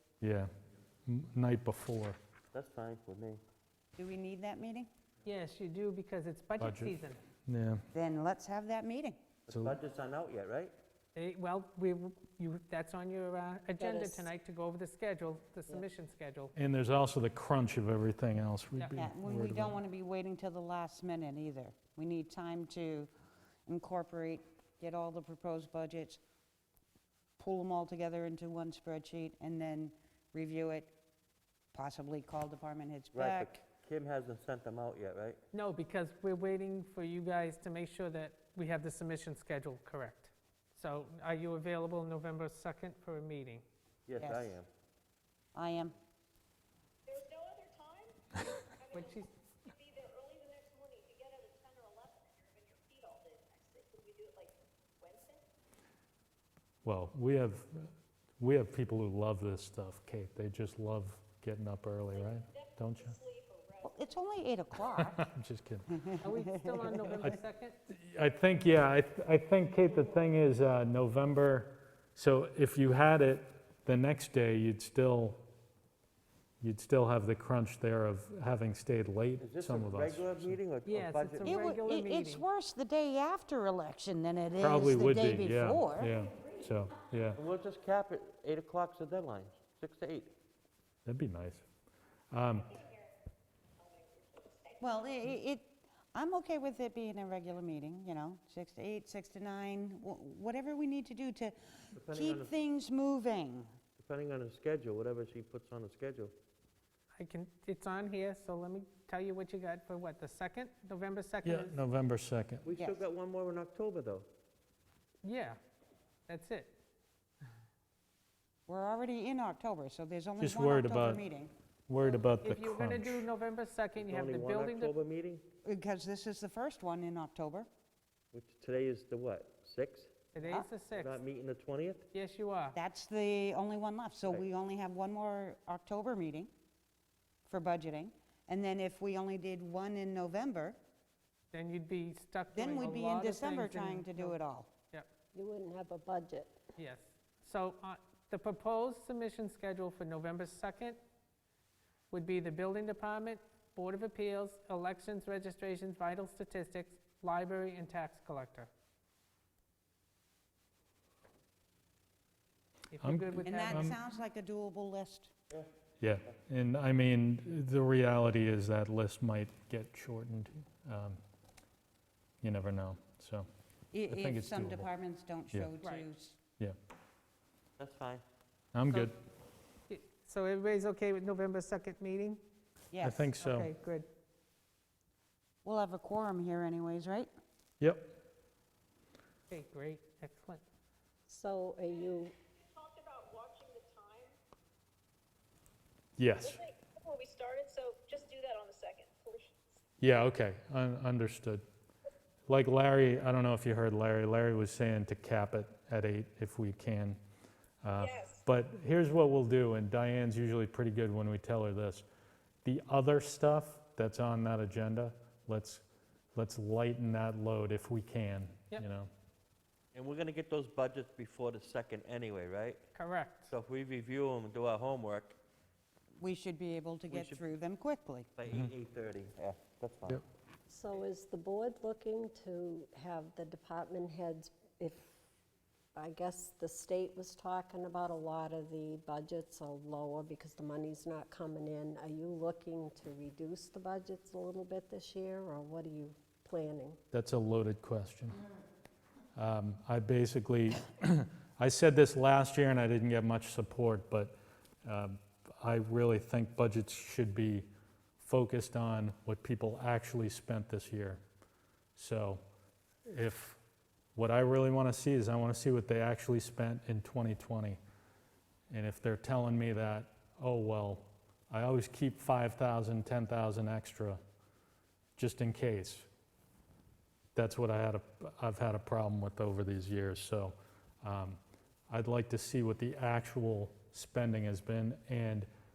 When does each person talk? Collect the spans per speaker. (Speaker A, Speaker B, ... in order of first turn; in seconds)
Speaker A: 0.2-0.5, 1.1-2.2, 6.6-7.8, 9.5-9.8, 16.6-19.8, 56.8-63.2, 65.0-65.9, 67.9-75.4, 76.6-80.6, 84.6-87.4, 91.1-91.7, 92.3-92.8, 111.4-112.7, 120.4-121.2, 121.9-123.3, 163.0-164.0, 166.0-171.2, 172.4-173.5, 174.1-174.9, 178.7-179.2, 183.0-183.7, 187.8-188.1, 196.2-196.6, 200.0-201.6, 202.5-207.2, 207.8-212.1, 212.6-215.8, 216.3-219.1, 247.1-248.4, 249.4-257.7, 258.2-261.2, 262.0-262.4, 263.1-263.6, 264.2-267.8, 268.7-274.2, 275.2-276.1, 277.4-285.5
Speaker B: 2.5-3.4, 9.5-10.7, 33.1-35.4, 44.1-44.7, 79.4-81.6, 87.4-90.3, 102.0-102.6, 104.0-106.3, 112.7-114.3, 124.0-125.5, 128.3-130.1, 130.8-132.1, 177.8-178.2, 219.9-222.8, 223.5-225.4, 227.1-227.4, 228.4-230.2
Speaker C: 4.0-4.9, 7.9-9.3, 19.0-23.1, 23.7-26.2, 27.4-30.9, 31.7-33.7, 44.2-44.6, 45.5-46.0, 63.8-65.2, 65.9-67.3, 81.4-86.1, 94.8-103.8, 112.7-113.0, 118.7-121.5, 125.7-127.7, 132.8-136.5, 137.5-140.8, 142.5-144.7, 163.4-165.3, 173.9-176.4, 182.9-183.3, 185.7-187.3, 226.2-228.3
Speaker D: 5.3-7.2, 11.2-16.5, 35.5-43.6, 48.9-49.7, 66.2-67.8, 80.8-82.4, 107.2-111.8, 115.2-115.6, 116.3-116.8, 122.4-124.9, 130.3-131.2, 132.1-132.8, 141.5-144.4, 146.8-151.0, 152.1-158.7, 162.9-164.0, 175.8-176.1, 179.9-182.4, 183.4-184.1, 189.5-190.6, 222.9-223.6
Speaker E: 13.8-14.3, 145.3-146.6, 191.3-192.3, 230.7-235.0, 235.9-247.0
Speaker F: 47.1-49.0, 49.8-55.4, 63.2-63.9, 93.9-94.8, 192.7-194.3, 196.6-199.6, 208.0-208.4